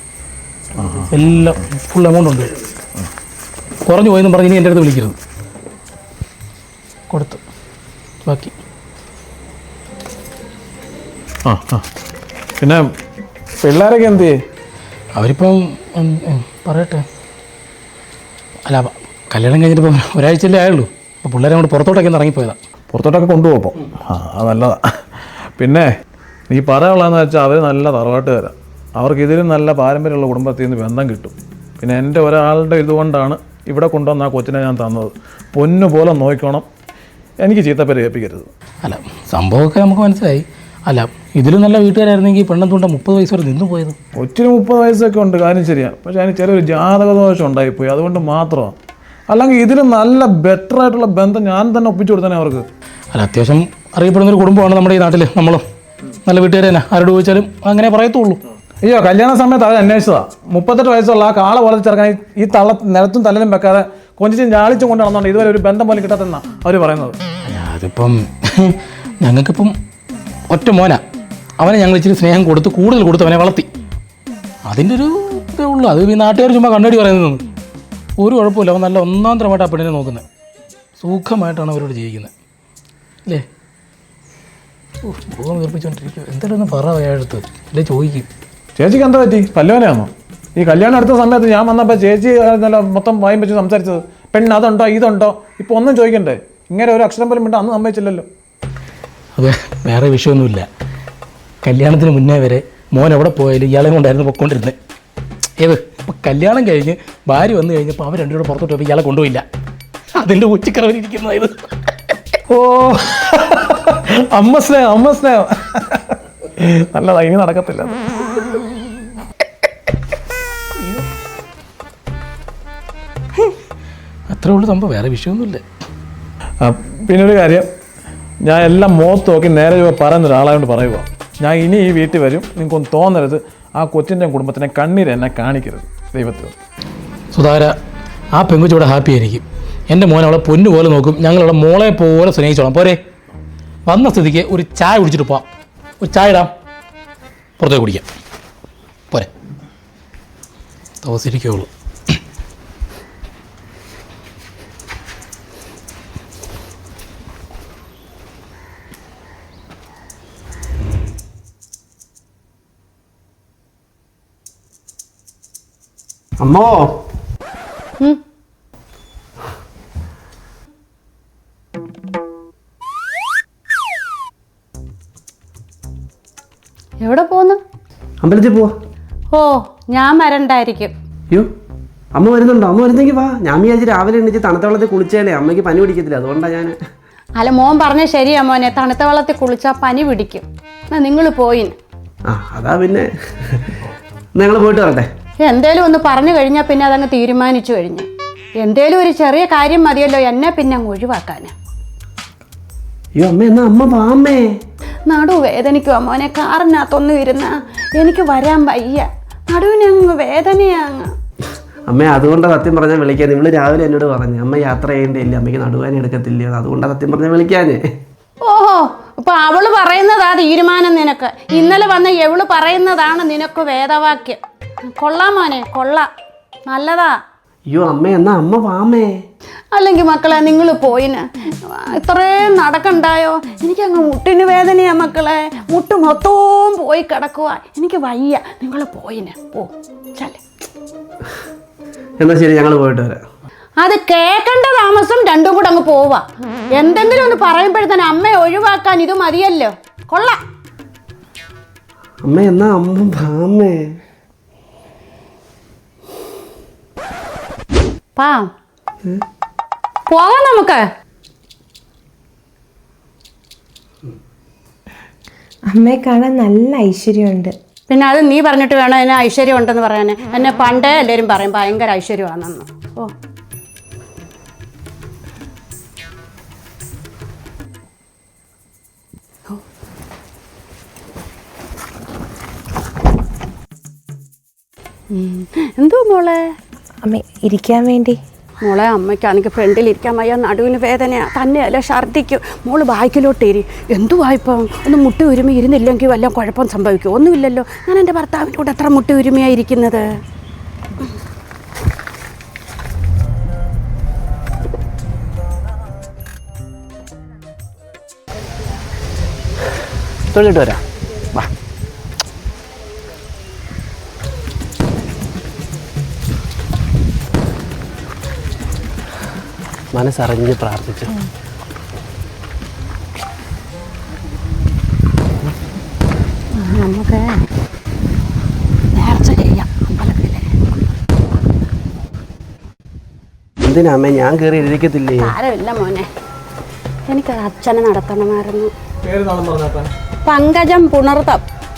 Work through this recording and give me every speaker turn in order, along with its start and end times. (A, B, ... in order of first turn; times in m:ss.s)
0:00.7-0:01.1 A
0:01.1-0:02.5 B
0:03.8-0:05.2 B
0:07.1-0:07.4 B
0:08.2-0:08.5 B
0:11.4-0:11.8 A
0:12.6-0:12.9 A
0:13.6-0:14.4 A
0:15.2-0:17.0 B
0:18.6-0:22.6 B
0:22.9-0:24.8 A
0:25.6-0:25.9 A
0:26.5-0:36.6 A
0:37.4-0:38.5 A
0:38.8-0:44.0 B
0:44.2-0:48.7 A
0:49.3-0:52.6 A
0:53.1-0:55.6 B
0:56.2-0:58.4 B
0:58.8-1:07.2 A
1:07.4-1:09.7 B
1:10.5-1:11.0 B
1:11.6-1:13.7 B
1:14.6-1:17.4 B
1:18.2-1:20.2 B
1:21.0-1:22.3 B
1:25.0-1:28.3 B
1:28.8-1:38.3 A
1:39.4-1:40.7 B
1:41.6-1:44.8 B
1:45.6-1:49.4 B
1:50.2-1:51.6 B
1:52.5-1:58.5 A
2:04.3-2:05.6 B
2:06.6-2:07.7 A
2:08.4-2:16.5 A
2:17.3-2:17.8 B
2:18.4-2:23.0 B
2:23.9-2:25.4 B
2:26.0-2:26.5 B
2:27.6-2:28.0 B
2:31.0-2:32.1 B
2:46.4-2:47.0 C
2:57.0-2:57.6 D
2:58.2-2:58.7 C
2:59.3-3:00.9 D
3:02.1-3:06.8 C
3:07.4-3:11.7 D
3:12.3-3:13.7 C
3:14.4-3:15.1 C
3:15.4-3:18.1 D
3:18.6-3:21.5 D
3:23.2-3:24.5 C
3:25.1-3:31.1 D
3:31.9-3:37.8 C
3:38.4-3:46.1 D
3:46.7-3:47.1 D
3:47.7-3:49.2 C
3:49.7-4:00.4 D
4:02.2-4:03.2 C
4:03.8-4:10.4 D
4:12.2-4:14.0 C
4:18.2-4:18.5 D
4:20.1-4:20.8 D
4:25.7-4:27.5 E
4:27.9-4:33.1 D
4:45.1-4:46.4 D
4:47.0-4:48.2 E
4:48.6-5:00.1 D
5:10.3-5:10.8 C
5:19.9-5:21.1 C
5:26.5-5:27.4 D
5:28.9-5:30.5 D
5:33.6-5:35.3 C
5:35.2-5:36.1 D
5:37.1-5:38.7 D
5:39.0-5:39.9 A
5:40.2-5:41.4 D